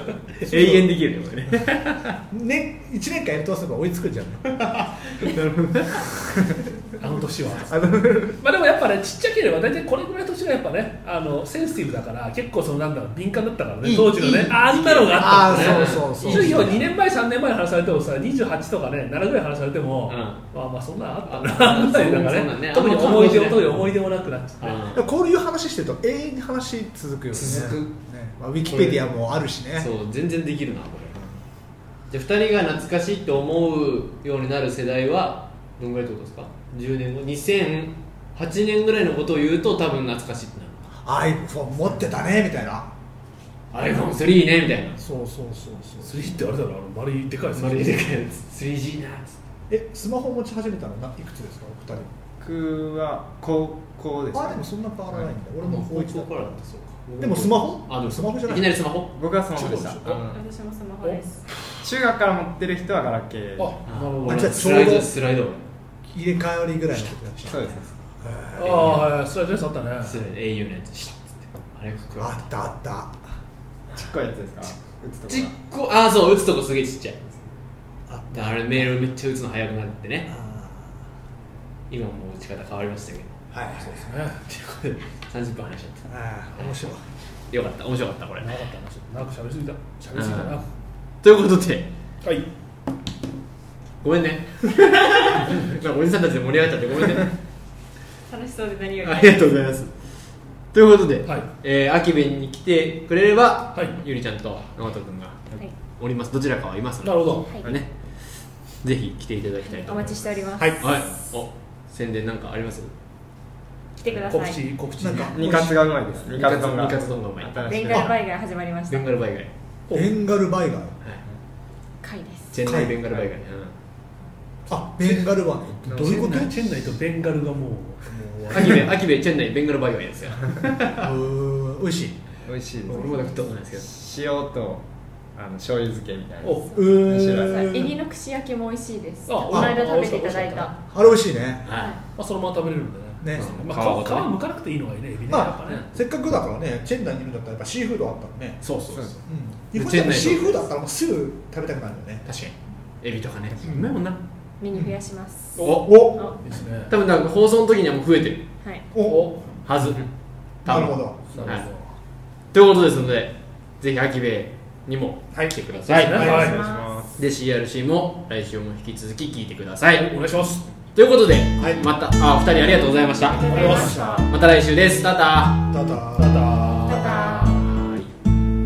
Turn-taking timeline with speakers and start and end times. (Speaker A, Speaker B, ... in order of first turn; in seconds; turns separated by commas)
Speaker A: 0.4-2.2, Speaker B: 0.4-0.9, Speaker B: 2.3-6.1, Speaker A: 5.2-6.5, Speaker C: 7.0-24.8, Speaker B: 7.7-8.4, Speaker B: 13.8-16.9, Speaker A: 14.4-16.8, Speaker A: 20.1-20.4, Speaker A: 21.2-23.9, Speaker A: 24.6-25.1, Speaker B: 24.9-29.9, Speaker A: 27.3-27.9, Speaker A: 28.7-29.1, Speaker A: 29.8-31.2, Speaker B: 31.1-31.4, Speaker A: 32.1-40.9, Speaker B: 41.0-42.9, Speaker A: 43.7-45.0, Speaker B: 45.0-46.5, Speaker C: 46.0-48.1, Speaker A: 47.5-49.4, Speaker B: 49.7-52.1, Speaker D: 52.4-54.6, Speaker B: 54.3-56.5, Speaker A: 55.1-59.1, Speaker B: 57.2-58.8, Speaker D: 59.1-60.4, Speaker C: 59.5-60.2, Speaker E: 60.3-61.5, Speaker D: 61.8-63.8, Speaker C: 63.6-64.9, Speaker A: 63.9-65.6, Speaker B: 64.2-65.1, Speaker B: 66.1-69.0, Speaker D: 67.4-67.9, Speaker C: 68.5-70.2, Speaker A: 68.6-69.0, Speaker A: 70.0-72.5, Speaker B: 72.2-73.2, Speaker D: 73.9-75.5, Speaker A: 75.3-77.5, Speaker B: 78.1-78.9, Speaker A: 78.3-80.3, Speaker B: 80.3-81.0, Speaker A: 81.9-83.4, Speaker B: 83.5-84.1, Speaker C: 83.7-84.4, Speaker A: 84.4-86.8, Speaker B: 86.1-87.0, Speaker A: 87.5-88.5, Speaker C: 88.4-90.6, Speaker A: 90.1-90.6, Speaker A: 91.2-91.9, Speaker A: 94.0-97.3, Speaker E: 98.3-99.6, Speaker A: 99.0-99.9, Speaker A: 100.7-107.9, Speaker C: 107.0-107.5, Speaker E: 107.4-107.7, Speaker A: 108.8-112.9, Speaker E: 109.6-111.1, Speaker B: 110.6-110.8, Speaker E: 114.0-114.6, Speaker C: 114.1-115.4, Speaker B: 115.0-115.9, Speaker D: 115.3-118.2, Speaker A: 116.3-118.0, Speaker E: 117.6-119.1, Speaker A: 118.9-119.5, Speaker C: 119.9-120.1, Speaker B: 119.9-121.0, Speaker E: 122.0-122.5, Speaker A: 122.5-123.7, Speaker B: 122.6-123.2, Speaker B: 124.7-126.5, Speaker C: 125.9-128.9, Speaker A: 128.5-131.1, Speaker B: 131.0-132.2, Speaker D: 132.4-137.9, Speaker A: 132.8-133.9, Speaker E: 132.9-133.3, Speaker C: 136.4-136.8, Speaker E: 136.5-140.7, Speaker B: 136.7-137.9, Speaker C: 139.3-140.7, Speaker B: 139.5-139.8, Speaker B: 140.9-141.7, Speaker A: 141.7-142.0, Speaker E: 141.7-142.0, Speaker C: 142.2-145.9, Speaker B: 143.2-143.6, Speaker A: 143.3-144.3, Speaker B: 145.3-148.6, Speaker A: 148.6-149.2, Speaker B: 149.1-152.2, Speaker A: 149.7-150.7, Speaker A: 152.2-154.2, Speaker B: 153.6-154.0, Speaker E: 154.6-156.4, Speaker B: 154.7-155.0, Speaker C: 155.6-156.9, Speaker A: 155.6-155.9, Speaker B: 155.6-156.3, Speaker A: 156.9-158.4, Speaker E: 158.6-158.9, Speaker B: 158.9-159.4, Speaker C: 159.1-159.4, Speaker A: 159.6-160.1, Speaker A: 160.6-161.7, Speaker B: 160.6-161.5, Speaker C: 161.3-161.8, Speaker A: 162.5-166.4, Speaker C: 165.9-166.6, Speaker B: 166.1-166.5, Speaker D: 166.1-167.2, Speaker E: 166.1-167.0, Speaker A: 167.2-170.1, Speaker C: 170.0-170.7, Speaker A: 170.9-175.7, Speaker B: 171.6-171.8, Speaker E: 173.2-174.3, Speaker D: 173.4-173.8, Speaker B: 173.5-174.3, Speaker C: 173.5-174.0, Speaker B: 175.7-176.4, Speaker C: 176.1-177.5, Speaker E: 176.8-177.6, Speaker A: 176.9-178.1